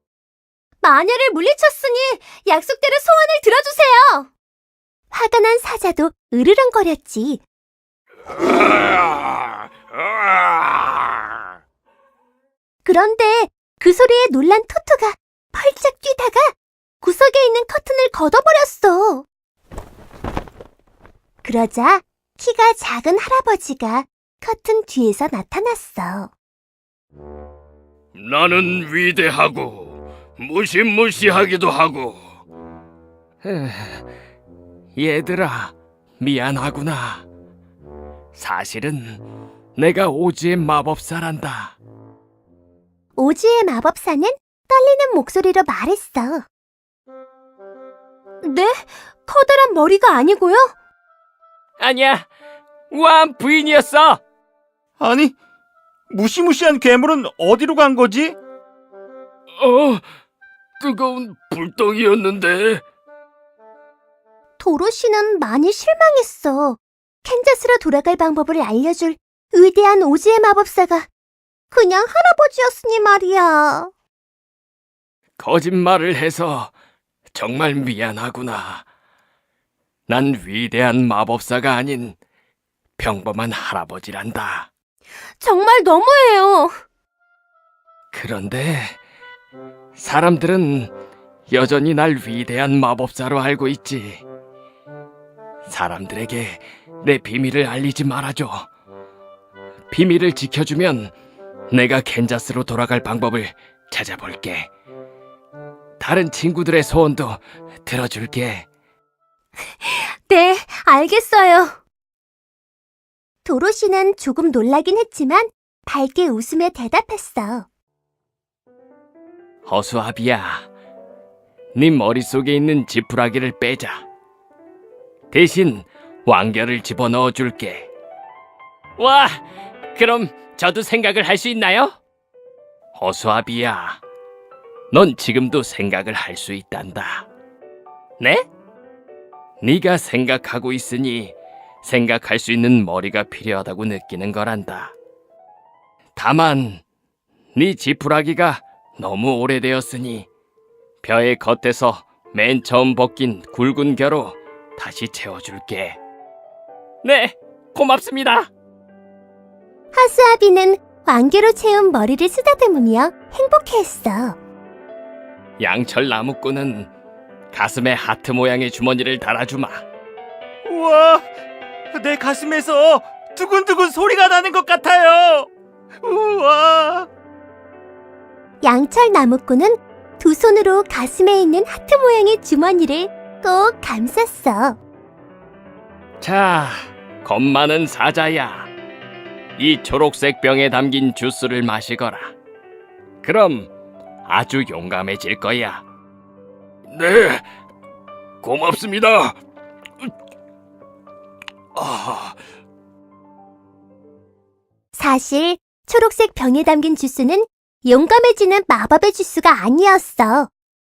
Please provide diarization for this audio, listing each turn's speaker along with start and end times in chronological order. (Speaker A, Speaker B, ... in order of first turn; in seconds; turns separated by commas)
Speaker A: 0.8-4.3, Speaker A: 5.1-7.4, Speaker A: 12.8-19.2, Speaker A: 21.4-26.3, Speaker B: 28.1-32.3, Speaker C: 33.4-34.0, Speaker C: 35.0-37.2, Speaker C: 38.3-39.2, Speaker C: 39.8-41.7, Speaker A: 43.2-46.5, Speaker D: 48.4-50.7, Speaker C: 51.8-52.2, Speaker C: 52.9-54.2, Speaker E: 55.0-55.3, Speaker E: 56.1-58.4, Speaker B: 59.6-60.0, Speaker B: 60.8-62.8, Speaker A: 64.6-71.1, Speaker A: 71.7-73.9, Speaker C: 75.4-76.7, Speaker C: 77.3-78.8, Speaker C: 80.1-82.2, Speaker C: 83.0-84.7, Speaker D: 85.4-86.7, Speaker C: 88.1-89.0, Speaker C: 90.0-90.9, Speaker C: 91.5-94.2, Speaker C: 95.7-98.7, Speaker C: 99.9-101.1, Speaker C: 101.7-104.7, Speaker C: 106.0-108.7, Speaker A: 110.3-111.7, Speaker D: 110.4-111.3, Speaker A: 113.4-117.7, Speaker C: 119.7-120.7, Speaker C: 121.7-124.0, Speaker C: 125.3-127.9, Speaker C: 129.0-129.4, Speaker C: 129.9-131.9, Speaker C: 132.9-134.0, Speaker C: 134.9-137.3, Speaker C: 138.2-138.4, Speaker C: 139.6-144.9, Speaker C: 146.2-146.8, Speaker C: 147.5-150.3, Speaker C: 151.0-156.0, Speaker C: 157.0-158.5, Speaker A: 159.9-164.4, Speaker C: 165.6-166.9, Speaker C: 167.5-169.8, Speaker E: 170.6-171.2, Speaker E: 171.9-175.5, Speaker E: 176.0-177.1, Speaker A: 178.6-184.8, Speaker C: 186.2-188.7, Speaker C: 189.6-192.3, Speaker C: 193.2-193.7, Speaker C: 194.2-195.8, Speaker B: 196.9-197.4, Speaker B: 198.4-199.4, Speaker B: 201.7-202.4, Speaker A: 204.9-210.5